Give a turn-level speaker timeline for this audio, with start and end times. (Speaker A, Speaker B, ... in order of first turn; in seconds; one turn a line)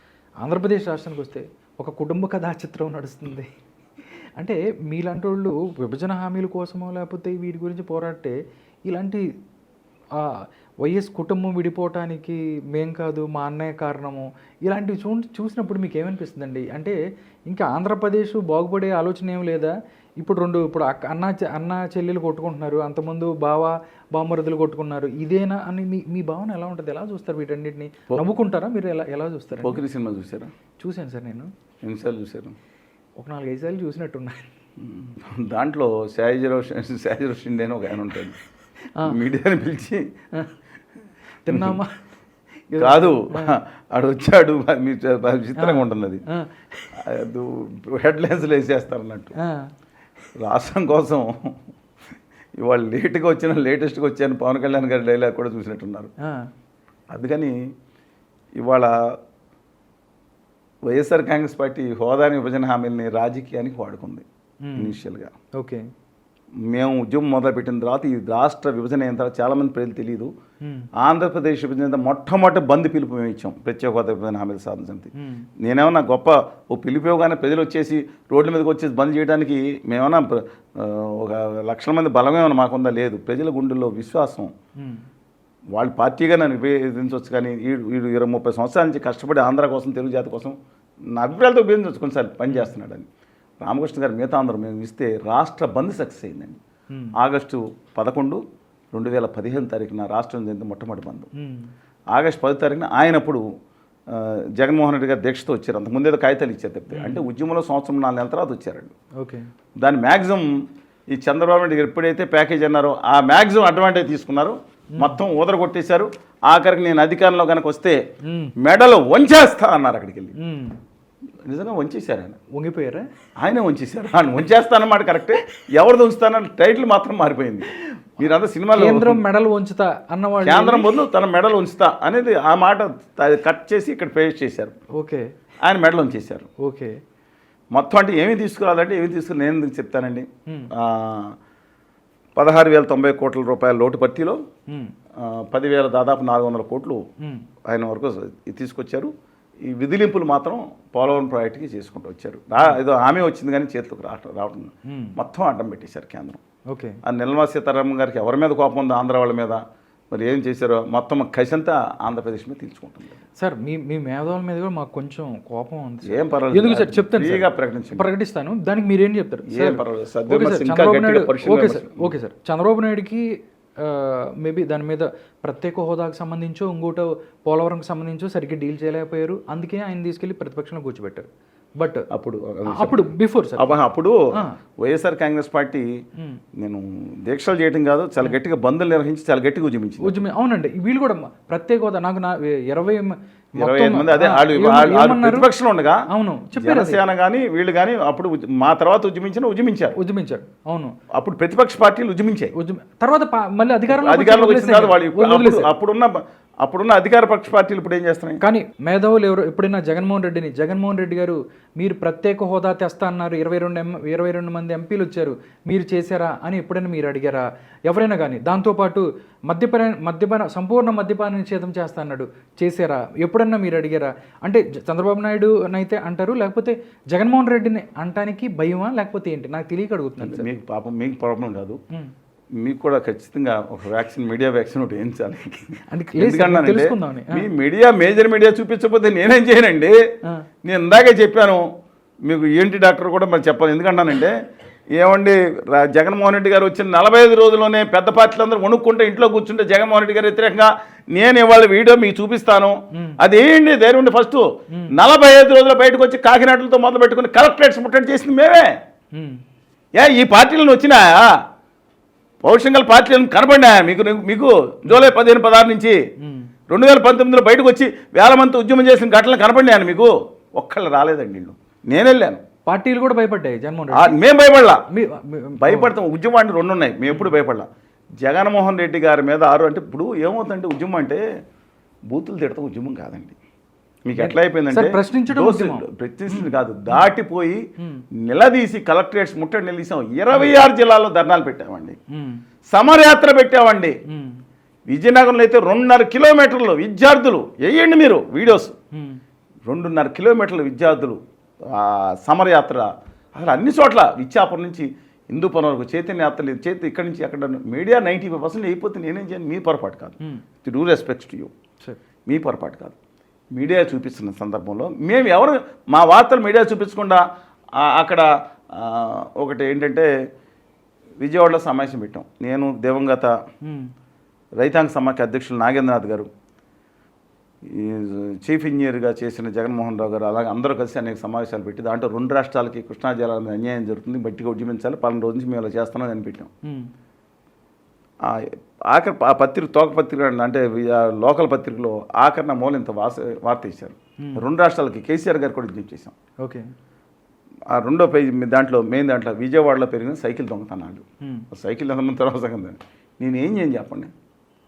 Speaker A: 0.4-3.5
Speaker A: 4.4-8.4
Speaker A: 8.9-9.2
Speaker A: 10.2-17.0
Speaker A: 17.5-29.8
Speaker B: 29.6-30.5
Speaker A: 30.8-31.5
Speaker B: 31.8-32.5
Speaker A: 33.2-34.5
Speaker B: 34.8-38.4
Speaker B: 39.0-40.1
Speaker A: 41.4-42.0
Speaker B: 41.5-41.8
Speaker A: 42.7-43.5
Speaker B: 42.8-46.2
Speaker A: 45.6-46.9
Speaker B: 47.0-49.3
Speaker A: 49.4-49.7
Speaker B: 50.4-51.5
Speaker B: 52.6-56.1
Speaker A: 56.2-56.5
Speaker B: 57.1-57.5
Speaker B: 58.6-58.9
Speaker B: 60.9-64.2
Speaker A: 64.6-65.0
Speaker B: 64.8-65.3
Speaker A: 65.6-65.9
Speaker B: 66.7-70.3
Speaker B: 71.0-84.5
Speaker A: 75.2-75.5
Speaker B: 85.7-90.6
Speaker B: 91.1-93.1
Speaker B: 93.6-96.6
Speaker A: 96.9-97.2
Speaker B: 97.2-98.4
Speaker B: 98.9-101.3
Speaker A: 101.4-101.7
Speaker B: 102.1-103.4
Speaker B: 104.1-108.9
Speaker A: 106.9-107.2
Speaker A: 109.2-109.5
Speaker B: 109.8-110.5
Speaker B: 111.1-118.0
Speaker A: 118.2-118.5
Speaker B: 118.6-120.3
Speaker A: 120.4-120.8
Speaker B: 121.5-122.4
Speaker A: 122.5-123.1
Speaker B: 123.4-129.2
Speaker A: 128.8-130.9
Speaker B: 130.4-134.7
Speaker A: 134.9-135.3
Speaker B: 135.6-136.5
Speaker A: 136.6-137.0
Speaker B: 137.7-141.4
Speaker B: 142.4-144.4
Speaker B: 145.2-147.0
Speaker B: 147.7-149.1
Speaker B: 149.6-156.4
Speaker A: 154.9-155.2
Speaker A: 156.7-157.0
Speaker B: 157.0-163.2
Speaker A: 163.4-173.3
Speaker B: 166.1-168.1
Speaker B: 169.5-172.1
Speaker A: 173.8-181.3
Speaker A: 181.8-182.1
Speaker B: 182.1-184.2
Speaker A: 182.7-183.7
Speaker B: 184.8-185.9
Speaker B: 186.6-190.2
Speaker A: 190.0-195.5
Speaker B: 193.6-200.0
Speaker A: 196.1-197.0
Speaker A: 200.0-200.9
Speaker B: 201.1-202.5
Speaker A: 202.6-205.7
Speaker B: 203.9-208.4
Speaker A: 208.4-230.5
Speaker B: 230.2-231.8
Speaker B: 232.6-235.7
Speaker A: 235.9-237.5
Speaker B: 236.2-240.0
Speaker B: 240.7-241.6
Speaker B: 242.3-244.3
Speaker B: 244.9-258.7
Speaker A: 259.1-259.4
Speaker B: 260.0-261.4
Speaker B: 262.4-266.0
Speaker A: 266.2-266.5
Speaker B: 266.7-272.4
Speaker A: 272.7-274.1
Speaker B: 273.9-274.8
Speaker A: 274.9-275.9
Speaker B: 275.6-277.7
Speaker B: 278.2-281.2
Speaker B: 282.1-283.4
Speaker B: 284.1-287.7
Speaker A: 284.2-287.1
Speaker B: 288.2-292.0
Speaker A: 292.1-292.4
Speaker B: 292.7-294.0
Speaker A: 294.1-294.4
Speaker B: 294.9-298.8
Speaker A: 298.9-299.2
Speaker B: 299.7-311.5
Speaker B: 312.3-313.0
Speaker B: 313.6-317.2
Speaker B: 317.8-320.1
Speaker B: 321.2-323.4
Speaker A: 323.6-323.9
Speaker B: 324.6-326.3
Speaker B: 327.7-336.5
Speaker B: 338.2-346.1
Speaker B: 347.7-354.1